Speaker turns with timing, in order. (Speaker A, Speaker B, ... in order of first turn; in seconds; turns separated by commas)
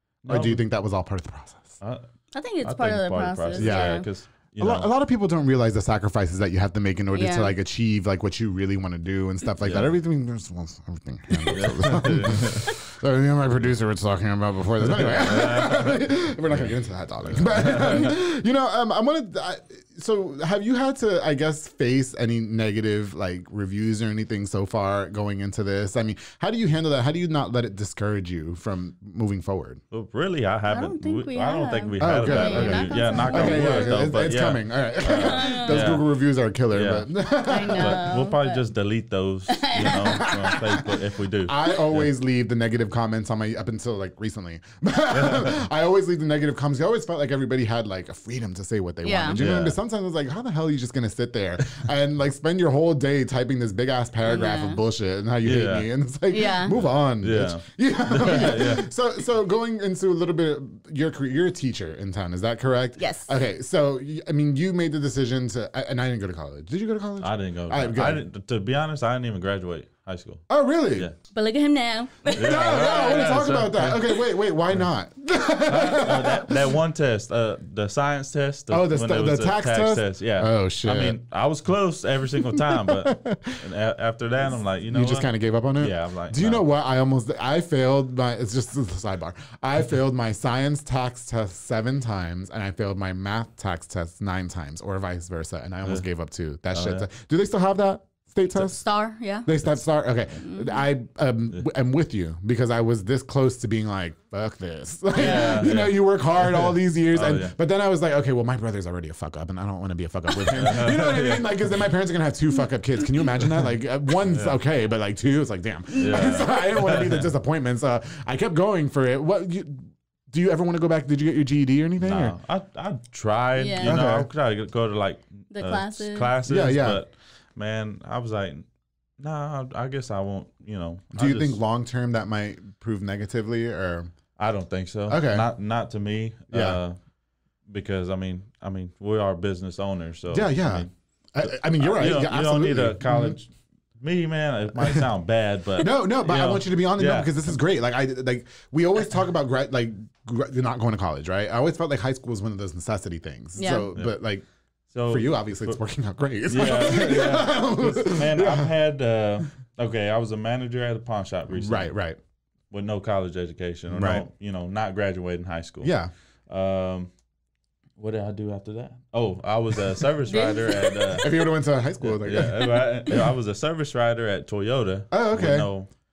Speaker A: 0.2-0.7, Speaker B: 0.3-1.8, Speaker C: 2.3-4.1, Speaker A: 2.6-4.9, Speaker B: 3.6-4.0, Speaker B: 4.6-29.8, Speaker C: 7.1-7.5, Speaker A: 9.6-10.0, Speaker A: 11.5-12.7, Speaker A: 14.8-16.7, Speaker A: 17.2-18.1, Speaker A: 29.9-36.1, Speaker C: 30.7-34.1, Speaker B: 32.0-38.1, Speaker C: 35.1-35.9, Speaker A: 36.7-37.1, Speaker C: 37.5-38.7, Speaker A: 37.8-42.1, Speaker C: 39.5-40.5, Speaker B: 39.9-40.9, Speaker B: 41.5-68.2, Speaker A: 45.1-45.6, Speaker C: 49.0-49.4, Speaker A: 49.4-49.8, Speaker C: 54.2-54.8, Speaker A: 55.4-55.9, Speaker C: 56.3-56.8, Speaker A: 57.2-58.9, Speaker C: 63.0-63.3, Speaker A: 67.2-70.4, Speaker B: 70.5-71.1, Speaker C: 71.3-73.3, Speaker A: 72.3-74.2, Speaker B: 72.4-76.6, Speaker A: 75.7-86.6, Speaker B: 78.7-81.2, Speaker B: 83.0-83.6, Speaker B: 84.9-98.8, Speaker A: 96.7-97.1, Speaker C: 98.8-99.5, Speaker B: 99.5-122.4, Speaker C: 100.4-100.8, Speaker C: 105.1-105.6, Speaker A: 105.2-107.5, Speaker A: 110.5-111.5, Speaker A: 114.3-114.6, Speaker A: 116.0-117.3, Speaker A: 122.0-128.7, Speaker C: 123.6-124.0, Speaker B: 123.8-124.3, Speaker C: 125.5-126.3, Speaker B: 126.5-127.0, Speaker A: 129.2-131.6, Speaker B: 131.2-134.1, Speaker A: 134.4-137.0, Speaker B: 135.1-135.5, Speaker B: 136.5-136.8, Speaker A: 137.7-147.6, Speaker B: 140.3-143.4, Speaker B: 145.8-154.4, Speaker C: 153.6-153.9, Speaker A: 154.9-155.8, Speaker B: 155.1-158.7, Speaker A: 156.5-161.9, Speaker B: 161.5-162.2, Speaker A: 162.7-165.9, Speaker B: 163.9-164.2, Speaker B: 165.8-166.1, Speaker A: 166.5-167.1, Speaker A: 168.0-175.9, Speaker C: 170.3-170.9, Speaker B: 171.2-173.3, Speaker B: 175.1-175.7